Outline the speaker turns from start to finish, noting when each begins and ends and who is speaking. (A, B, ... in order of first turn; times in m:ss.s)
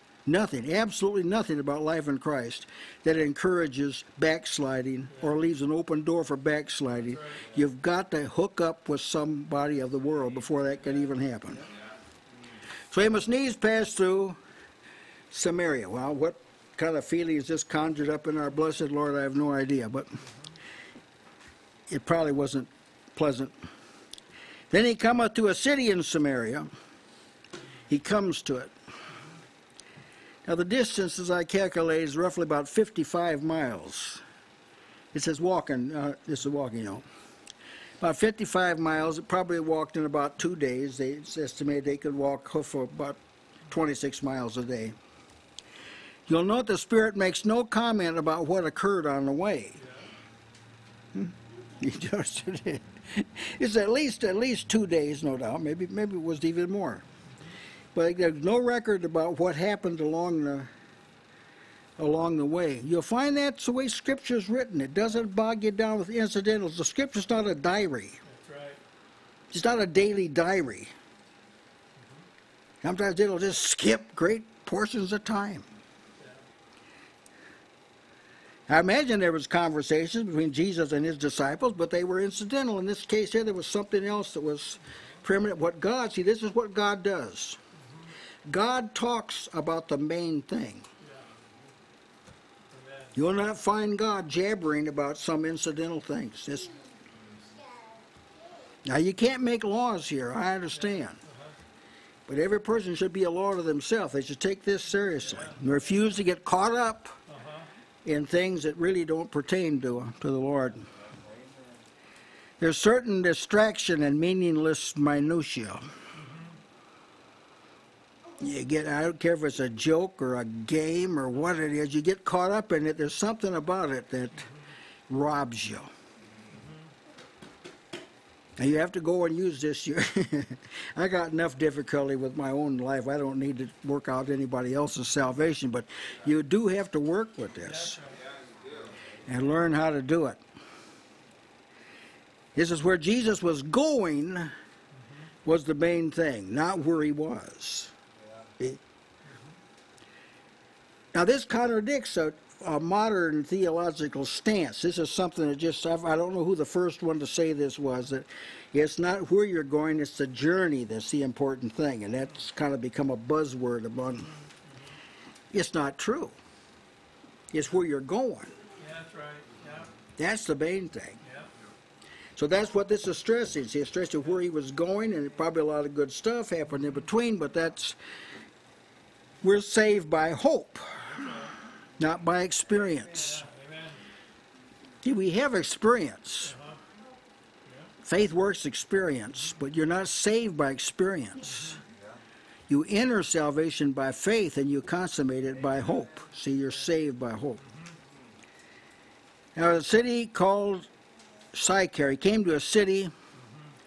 0:00.3-0:11.6 A
0:07.0-0:07.4 B
0:12.9-0:14.4 A
0:15.3-0:20.1 A
0:21.9-0:23.6 A
0:24.7-0:26.7 A
0:27.9-0:28.7 A
0:30.5-0:34.2 A
0:35.1-0:37.0 A
0:38.0-0:43.2 A
0:43.7-0:45.0 A
0:46.3-0:49.8 A
0:49.8-0:50.1 B
0:51.1-0:57.0 A
0:58.0-1:00.7 A
1:02.0-1:08.2 A
1:08.3-1:08.8 B
1:09.5-1:10.9 A
1:12.0-1:12.2 B
1:12.8-1:15.7 A
1:18.7-1:27.6 A
1:28.5-1:30.9 A
1:31.0-1:31.3 B
1:32.7-1:33.1 B
1:33.2-1:36.8 A
1:38.8-1:41.2 A
1:41.2-1:41.6 B
1:42.3-1:47.2 A
1:45.2-1:45.6 B
1:47.3-1:47.7 B
1:48.0-1:50.9 A
1:52.6-1:55.9 A
1:58.4-2:04.5 A
2:05.1-2:05.9 A
2:08.6-2:18.0 A
2:17.6-2:18.2 B
2:19.3-2:20.4 A
2:22.6-2:24.5 A
2:25.4-2:27.9 A
2:31.1-2:44.3 A
2:45.5-2:46.4 A
2:47.5-2:48.5 A
2:48.8-2:49.9 B
2:50.2-2:51.2 A
2:51.2-2:51.5 B
2:52.4-2:58.0 A
2:59.4-3:01.0 A
3:01.0-3:01.5 B
3:02.0-3:03.4 A
3:03.1-3:04.0 B
3:05.0-3:06.5 A
3:06.4-3:06.8 B
3:08.0-3:11.8 A
3:12.7-3:17.6 A
3:19.6-3:20.9 A
3:21.5-3:23.1 A